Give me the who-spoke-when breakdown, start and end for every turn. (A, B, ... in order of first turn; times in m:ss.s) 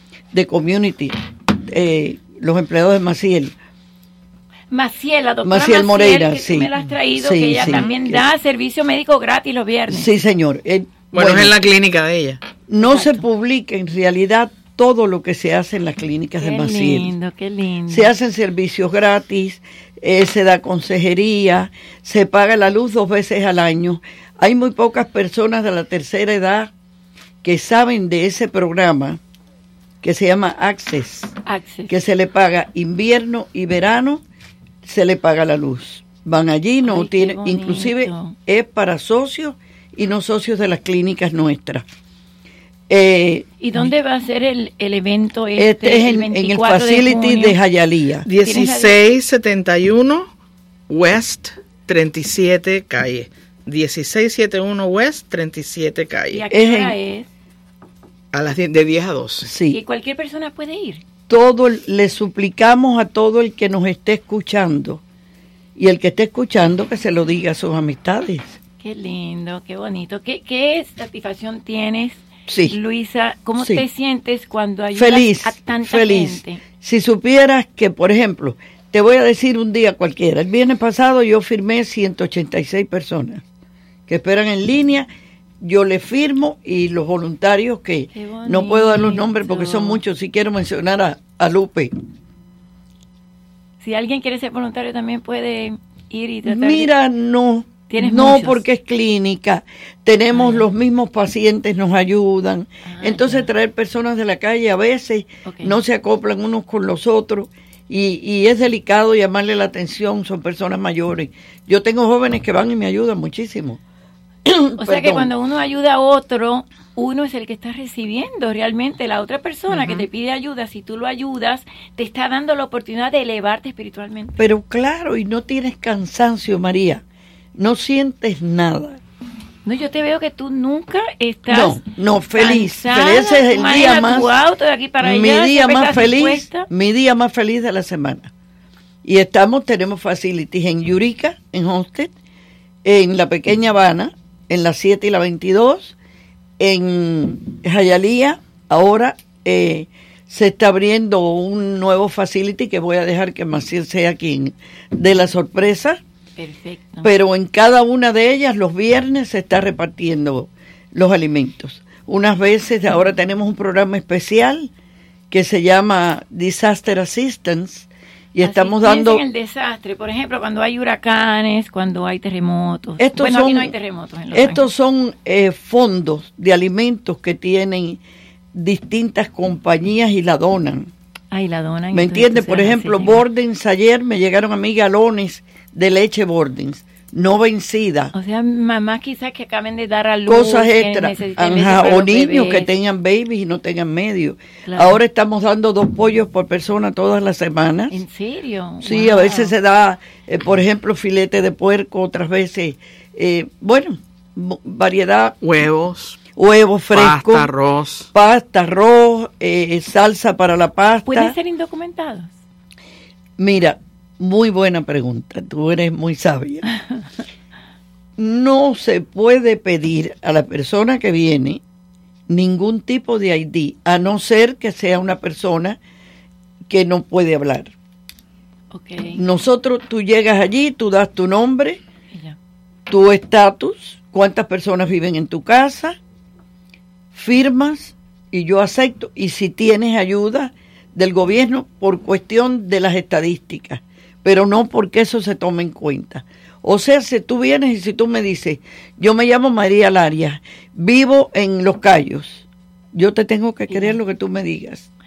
0:00.3-0:03.6 A
0:04.7-0:10.1 B
0:05.4-0:08.2 A
0:09.9-0:11.6 A
0:11.1-0:12.4 C
0:12.7-0:17.1 A
0:12.8-0:13.2 B
0:16.4-0:18.1 B
0:17.9-0:26.7 A
0:27.4-0:29.2 A
0:30.0-0:31.3 A
0:31.5-0:31.9 B
0:31.9-0:34.2 A
0:34.8-0:41.9 A
0:36.8-0:38.4 B
0:42.9-0:43.9 A
0:43.6-0:47.6 B
0:45.6-0:48.3 A
0:48.2-0:50.3 C
0:48.4-0:49.0 B
0:50.9-0:56.4 C
0:56.3-0:57.3 B
0:56.5-0:57.0 A
0:58.3-0:59.5 C
0:59.4-0:59.8 A
0:59.7-1:01.0 B
1:01.3-1:05.0 A
1:05.8-1:08.6 A
1:08.8-1:16.6 B
1:12.5-1:12.8 A
1:13.6-1:13.8 A
1:15.0-1:23.4 A
1:24.1-1:25.1 A
1:25.6-1:31.9 A
1:28.1-1:30.0 B
1:33.8-1:36.9 B
1:36.4-1:53.8 A
1:37.9-1:38.6 B
1:40.3-1:40.6 B
1:42.9-1:43.5 B
1:45.5-1:45.8 B
1:54.5-1:55.3 A
1:54.8-2:04.4 B
1:59.7-2:00.1 A
2:04.4-2:07.0 A
2:07.6-2:09.0 A
2:09.7-2:11.8 B
2:11.5-2:14.3 A
2:12.4-2:16.7 B
2:15.0-2:18.3 A
2:19.0-2:22.1 A
2:22.8-2:26.0 A
2:26.6-2:36.0 A
2:36.4-2:37.1 B
2:37.0-2:44.7 A
2:45.3-2:49.2 A
2:48.4-2:54.6 B
2:53.0-2:53.7 A
2:54.3-2:58.0 A
2:58.5-3:00.9 A
3:01.3-3:03.2 B
3:01.9-3:08.1 A
3:08.1-3:12.7 B
3:10.3-3:18.0 A
3:14.6-3:15.0 B
3:17.9-3:19.5 B
3:18.8-3:25.4 A
3:25.4-3:26.2 C
3:26.4-3:27.5 A
3:26.9-3:28.1 C
3:28.1-3:31.4 A
3:31.1-3:32.3 B
3:33.4-3:36.6 A
3:38.2-3:41.6 A
3:42.3-3:45.8 A
3:46.7-3:47.7 A
3:48.7-3:49.2 B
3:49.2-3:51.8 A
3:52.9-3:56.0 A
3:57.1-4:14.9 A
4:13.7-4:14.0 B